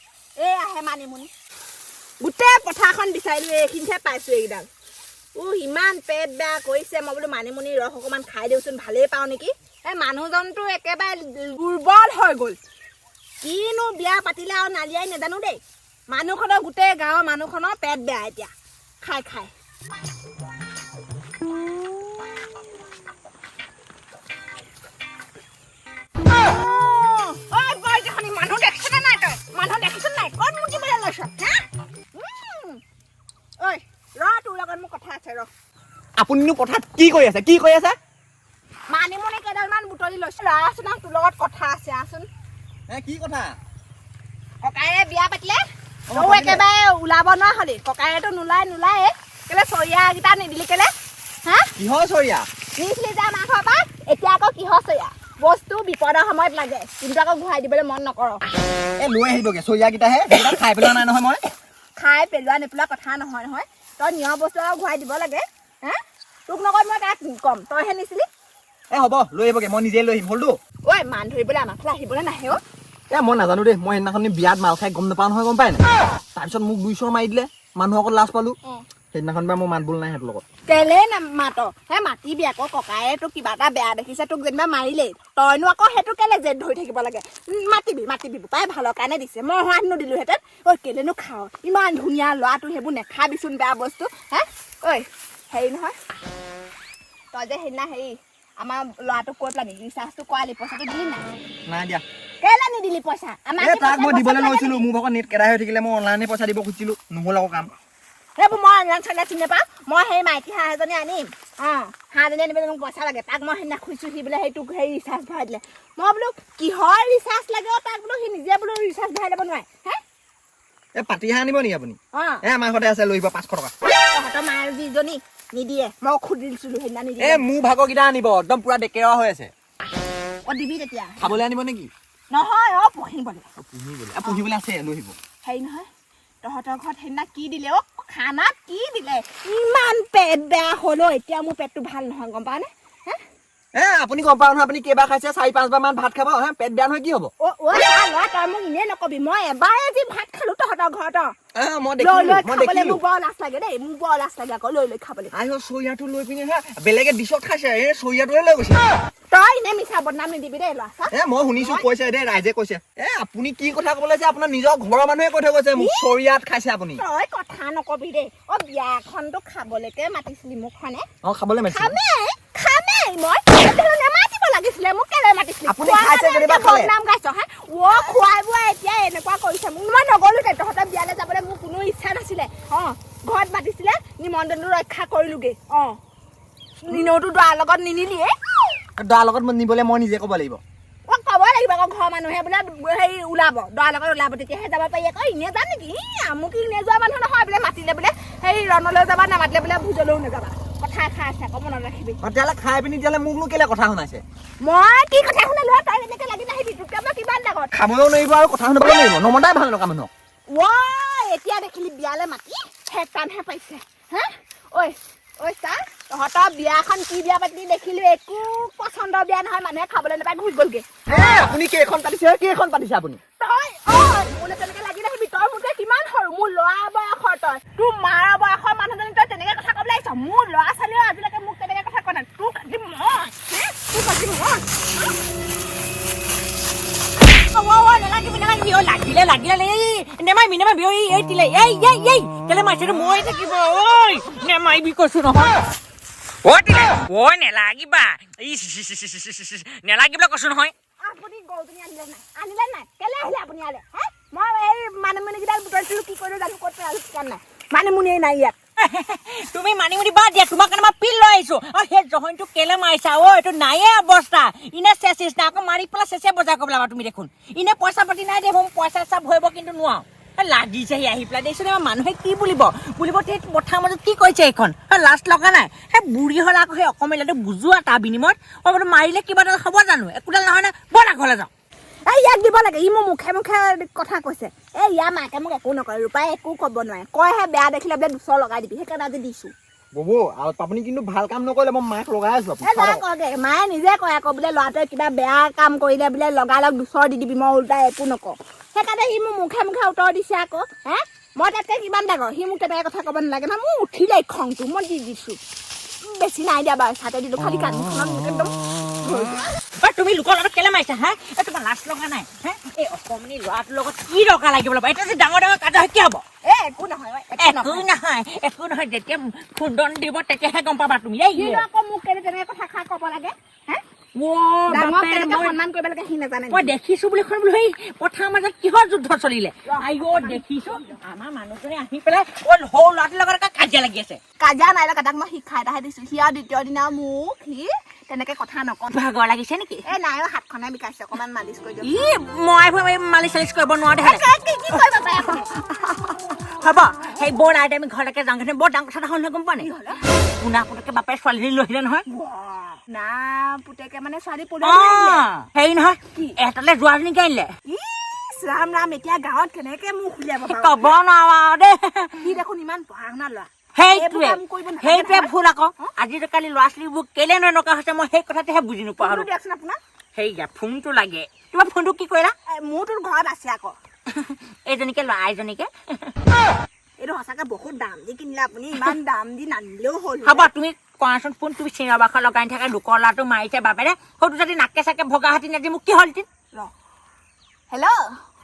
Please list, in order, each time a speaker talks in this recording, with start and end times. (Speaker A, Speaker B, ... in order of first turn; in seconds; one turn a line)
Speaker A: 0.4-1.3
Speaker A: 2.2-4.7
Speaker A: 5.3-12.6
Speaker A: 13.4-19.5
Speaker A: 21.6-22.2
Speaker A: 26.3-32.8
Speaker A: 33.6-35.5
Speaker B: 36.2-38.0
Speaker A: 38.9-42.3
Speaker B: 42.9-43.6
Speaker A: 44.6-50.9
Speaker B: 46.1-46.6
Speaker A: 51.5-51.7
Speaker B: 51.8-52.5
Speaker A: 52.8-58.4
Speaker B: 59.0-61.5
Speaker A: 62.0-68.3
Speaker B: 68.9-70.6
Speaker A: 70.8-72.6
Speaker B: 73.1-75.8
Speaker B: 76.3-78.6
Speaker B: 79.1-80.4
Speaker A: 80.7-96.0
Speaker A: 97.3-101.2
Speaker B: 101.7-102.0
Speaker A: 102.4-104.9
Speaker B: 103.6-107.7
Speaker A: 108.4-120.0
Speaker B: 121.0-123.7
Speaker A: 122.1-122.4
Speaker A: 124.1-127.5
Speaker B: 127.2-129.5
Speaker A: 130.4-131.3
Speaker B: 131.2-131.9
Speaker A: 132.3-133.5
Speaker B: 133.7-135.2
Speaker A: 135.4-135.9
Speaker A: 136.4-143.2
Speaker B: 143.7-147.3
Speaker A: 147.4-151.3
Speaker B: 151.5-153.0
Speaker A: 152.0-155.3
Speaker B: 155.3-158.9
Speaker A: 159.3-161.8
Speaker B: 161.1-167.0
Speaker A: 165.7-166.1
Speaker A: 167.0-171.1
Speaker B: 171.2-172.0
Speaker A: 171.7-186.0
Speaker B: 175.7-176.9
Speaker A: 186.8-188.3
Speaker B: 189.0-190.6
Speaker A: 191.1-202.2
Speaker B: 202.2-204.2
Speaker A: 204.6-207.7
Speaker B: 207.7-210.1
Speaker A: 210.5-220.9
Speaker B: 221.1-223.2
Speaker A: 223.4-235.1
Speaker C: 237.4-245.6
Speaker C: 246.4-250.7
Speaker A: 251.0-258.6
Speaker C: 258.8-281.5
Speaker A: 282.1-289.5
Speaker B: 289.9-293.0
Speaker A: 292.6-305.4
Speaker A: 306.0-309.5
Speaker C: 309.8-316.2
Speaker A: 316.4-317.9
Speaker C: 317.4-321.6
Speaker A: 321.3-323.8
Speaker C: 324.1-325.6
Speaker A: 324.7-326.7
Speaker C: 326.5-334.2
Speaker A: 329.6-331.0
Speaker A: 334.4-339.0
Speaker C: 338.9-339.9
Speaker A: 339.9-342.0
Speaker C: 341.8-344.2
Speaker A: 344.0-345.5
Speaker C: 344.8-352.1
Speaker A: 349.6-350.0
Speaker A: 352.1-355.2
Speaker C: 354.6-357.5
Speaker A: 357.7-360.9
Speaker C: 360.5-362.4
Speaker A: 362.2-365.9
Speaker C: 363.8-369.3
Speaker A: 369.0-369.8
Speaker C: 370.1-372.4
Speaker A: 372.5-373.8
Speaker C: 374.1-376.1
Speaker A: 377.0-380.5
Speaker C: 380.2-386.3
Speaker A: 387.7-388.2